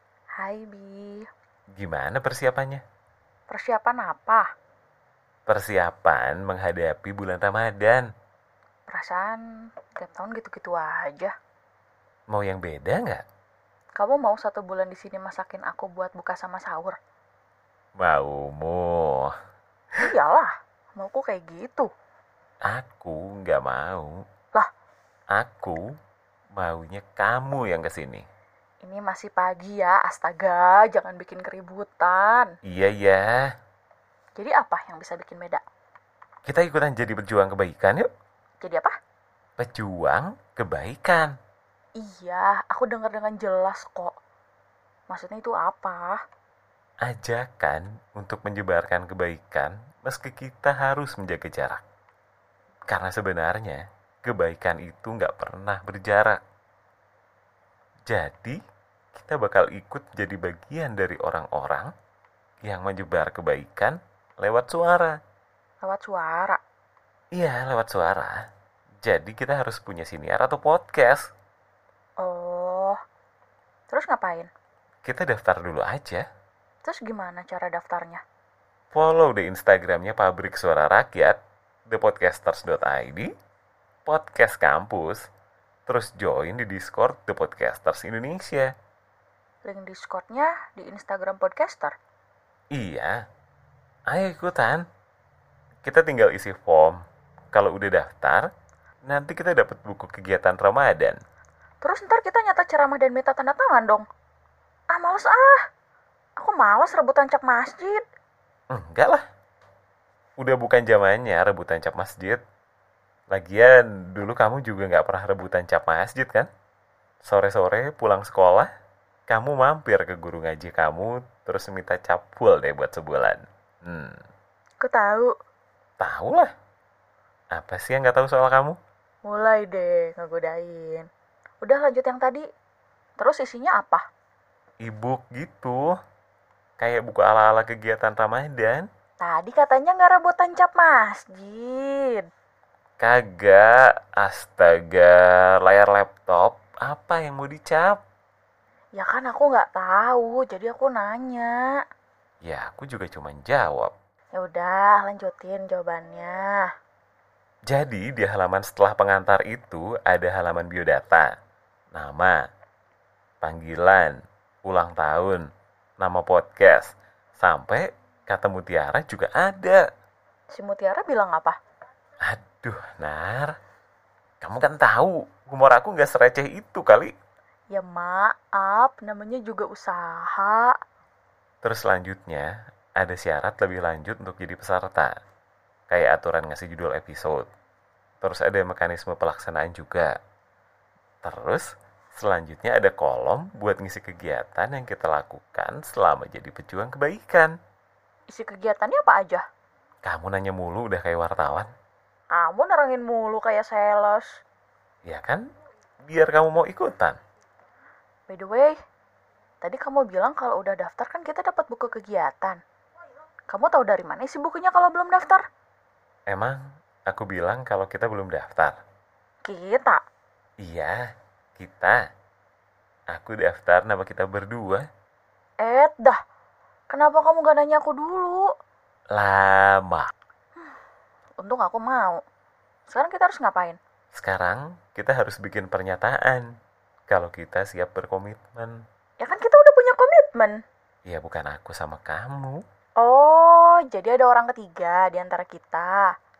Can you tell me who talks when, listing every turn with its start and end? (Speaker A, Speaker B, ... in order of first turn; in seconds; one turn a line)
Speaker A: 0.4-1.2
Speaker B: 1.8-2.8
Speaker A: 3.5-4.5
Speaker B: 5.5-8.1
Speaker A: 8.9-9.4
Speaker A: 9.9-11.3
Speaker B: 12.3-13.2
Speaker A: 13.9-17.0
Speaker B: 18.0-19.3
Speaker A: 20.0-21.9
Speaker B: 22.6-24.1
Speaker B: 25.3-25.8
Speaker B: 26.6-28.2
Speaker A: 28.8-32.5
Speaker B: 32.6-33.5
Speaker A: 34.4-35.6
Speaker B: 36.5-38.1
Speaker A: 38.6-39.0
Speaker B: 39.6-41.3
Speaker A: 42.0-44.1
Speaker A: 45.1-46.2
Speaker B: 47.0-51.8
Speaker B: 52.9-56.4
Speaker B: 58.1-58.6
Speaker B: 59.1-61.9
Speaker B: 62.6-65.2
Speaker A: 65.8-66.6
Speaker B: 67.3-68.4
Speaker B: 69.0-71.3
Speaker A: 72.2-73.0
Speaker A: 73.9-74.5
Speaker B: 75.0-76.2
Speaker A: 76.8-78.2
Speaker B: 78.9-83.3
Speaker B: 84.0-85.3
Speaker B: 85.9-88.7
Speaker A: 89.6-91.9
Speaker B: 92.7-93.2
Speaker B: 94.1-94.8
Speaker B: 95.8-97.0
Speaker B: 97.5-98.5
Speaker B: 99.0-101.2
Speaker A: 101.8-104.0
Speaker A: 104.9-105.6
Speaker A: 106.4-108.0
Speaker B: 108.7-109.2
Speaker B: 110.4-112.4
Speaker B: 113.3-116.5
Speaker B: 117.2-118.7
Speaker B: 119.3-124.2
Speaker A: 124.8-125.3
Speaker B: 126.0-126.5
Speaker B: 127.5-128.8
Speaker A: 129.2-131.1
Speaker A: 131.6-132.4
Speaker A: 133.2-134.0
Speaker B: 134.8-135.9
Speaker B: 136.8-138.8
Speaker A: 139.2-142.3
Speaker B: 143.0-148.0
Speaker A: 148.9-151.6
Speaker B: 152.4-153.9
Speaker A: 154.4-156.7
Speaker B: 157.7-161.3
Speaker B: 161.9-162.4
Speaker B: 163.4-165.4
Speaker B: 166.0-169.8
Speaker A: 170.5-171.6
Speaker B: 172.2-173.5
Speaker B: 174.4-177.1
Speaker A: 177.7-180.8
Speaker B: 181.6-185.1
Speaker B: 185.9-187.4
Speaker B: 188.2-190.1
Speaker B: 191.2-197.5
Speaker A: 198.3-199.4
Speaker B: 200.0-201.7
Speaker A: 202.3-204.3
Speaker B: 205.0-205.4
Speaker B: 206.1-207.2
Speaker A: 208.3-208.7
Speaker A: 209.6-212.6
Speaker A: 213.5-215.4
Speaker B: 216.3-218.8
Speaker A: 219.4-220.0
Speaker B: 220.6-221.0
Speaker B: 221.6-221.9
Speaker B: 223.1-224.8
Speaker A: 225.6-226.2
Speaker A: 226.9-228.4
Speaker B: 229.2-230.1
Speaker A: 231.4-232.2
Speaker A: 232.9-233.8
Speaker B: 234.1-236.5
Speaker B: 237.1-238.8
Speaker A: 239.2-240.6
Speaker B: 241.0-242.6
Speaker A: 243.0-246.1